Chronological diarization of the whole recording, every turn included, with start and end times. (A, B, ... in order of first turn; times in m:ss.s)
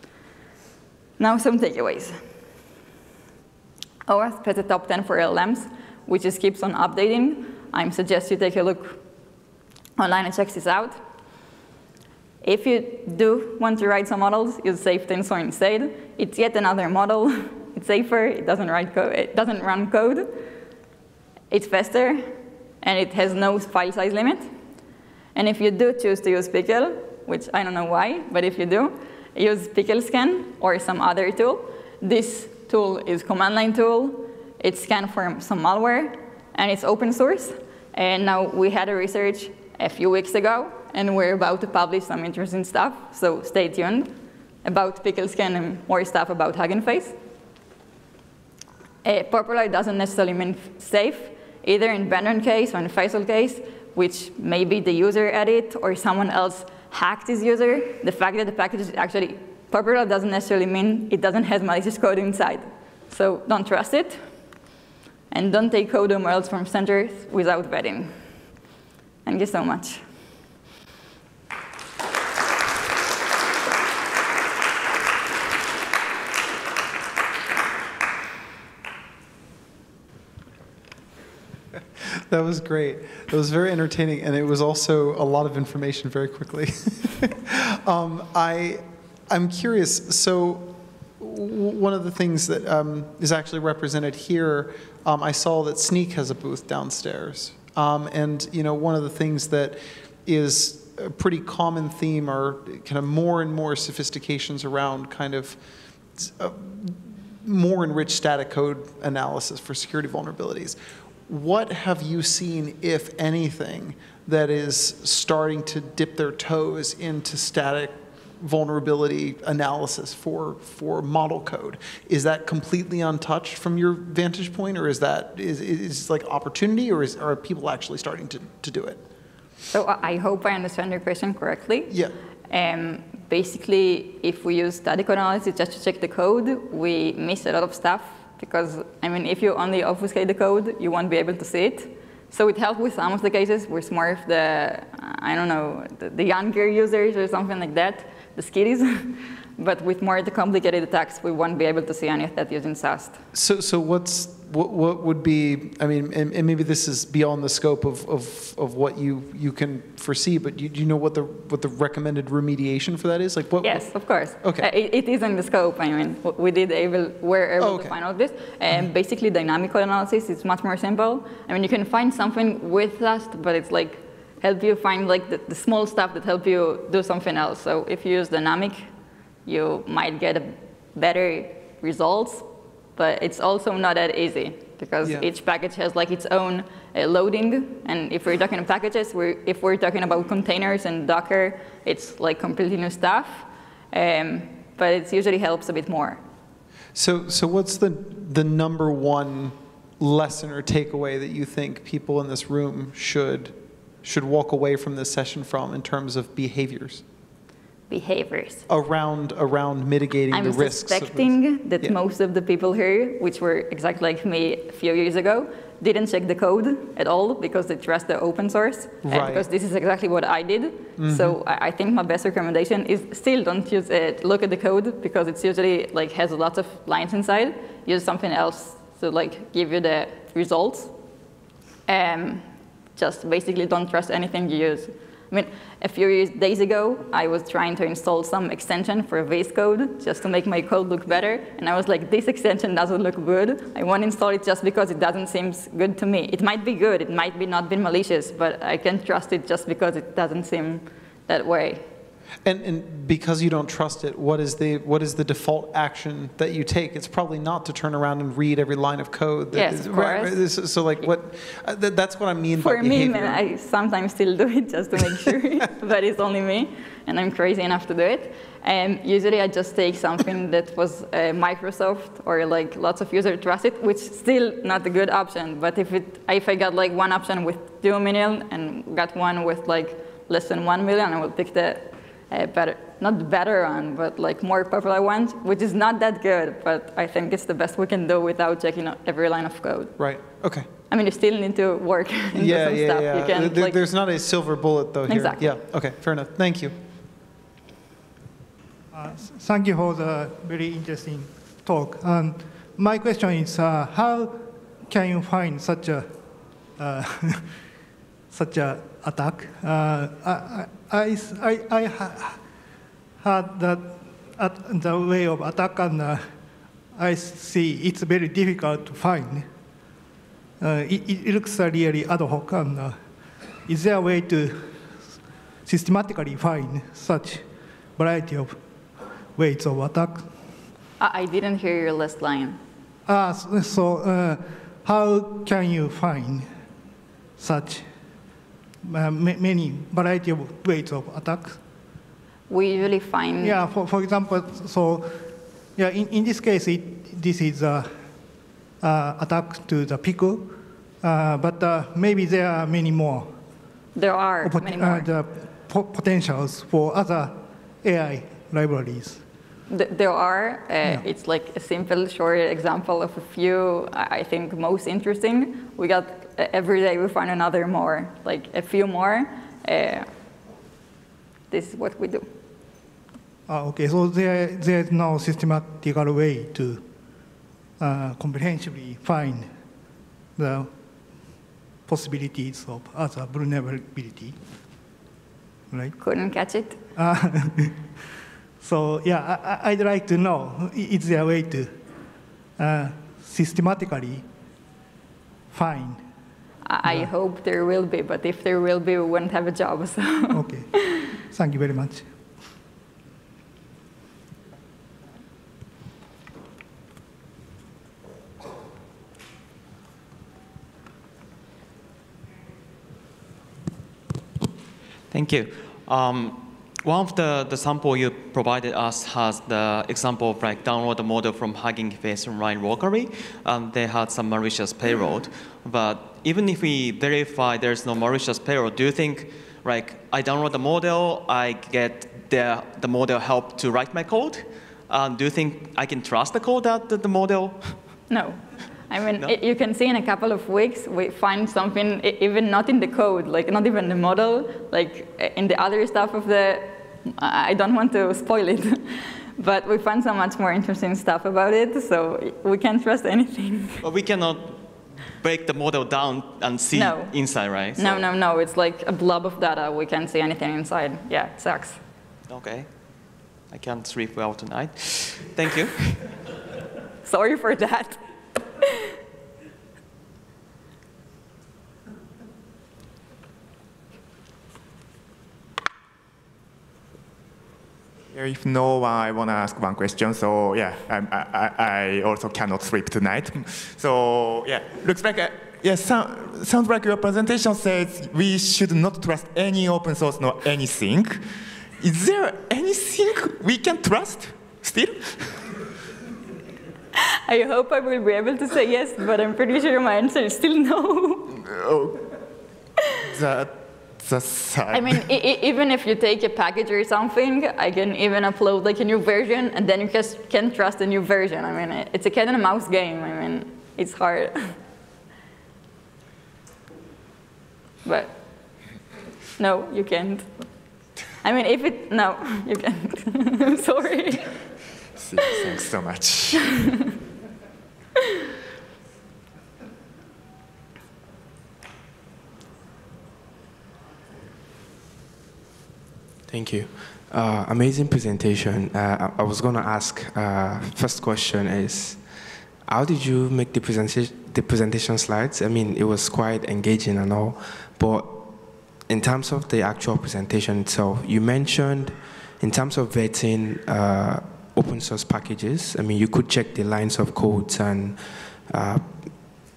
0:01.2-0:02.2 A
0:04.0-0:09.0 A
0:10.0-0:11.0 A
0:12.4-0:20.4 A
0:21.5-0:22.3 A
0:22.8-0:24.5 A
0:25.3-0:47.2 A
0:49.0-1:04.2 A
1:05.3-1:08.2 A
1:09.2-1:10.0 A
1:22.0-1:45.6 B
1:46.1-2:09.0 B
2:09.7-2:11.9 A
2:12.5-2:33.2 A
2:33.3-2:44.7 B
2:43.6-2:58.8 A
2:47.6-2:48.0 B
2:59.4-3:16.2 A
3:16.9-3:27.0 B
3:27.9-3:28.7 A
3:28.7-3:31.9 B
3:30.3-3:50.9 A
3:39.0-3:39.4 B
3:41.0-3:41.4 B
3:51.9-4:11.8 A
4:12.4-4:23.4 B
4:19.5-4:20.5 A
4:22.6-4:50.3 A
4:50.0-4:50.7 B
4:50.9-4:53.8 A
4:52.3-4:56.7 B
4:55.1-4:55.4 A
4:58.9-5:06.1 C
5:06.8-5:07.5 C
5:08.3-5:12.4 C
5:13.2-5:16.2 C
5:16.9-5:19.5 C
5:20.6-5:23.0 C
5:23.6-5:24.7 C
5:25.6-5:27.4 C
5:28.0-5:28.6 C
5:29.4-5:30.3 C
5:31.0-5:32.6 A
5:33.1-5:36.5 C
5:37.4-5:37.8 C
5:38.8-5:41.6 C
5:42.5-5:43.6 A
5:43.4-5:45.2 C
5:45.8-5:48.0 C
5:48.8-5:53.3 C
5:53.9-5:55.1 A
5:54.4-5:59.2 C
5:59.7-6:10.1 A
6:11.5-6:12.3 A
6:13.5-6:16.8 C
6:17.8-6:19.5 C
6:20.4-6:20.7 C
6:21.8-6:24.4 C
6:25.7-6:26.0 C
6:26.0-6:26.8 A
6:26.9-6:27.9 C
6:28.6-6:31.7 C
6:32.6-6:34.2 C
6:35.5-6:36.0 C
6:36.6-6:41.0 A
6:40.3-6:42.1 C
6:55.1-7:18.0 D
7:18.1-7:33.8 A
7:33.8-7:38.0 D
7:36.7-7:41.8 A
7:42.3-7:46.1 D
7:47.0-7:48.0 A
7:58.1-8:15.5 E
8:17.0-8:21.4 A
8:21.5-8:22.0 E
8:23.1-8:25.0 E
8:24.7-8:34.6 A
8:37.8-8:38.2 A
8:39.4-8:40.3 A
8:41.2-8:44.4 A
8:44.9-8:46.7 E
8:56.3-9:02.0 F
9:02.7-9:08.3 F
9:08.9-9:19.1 F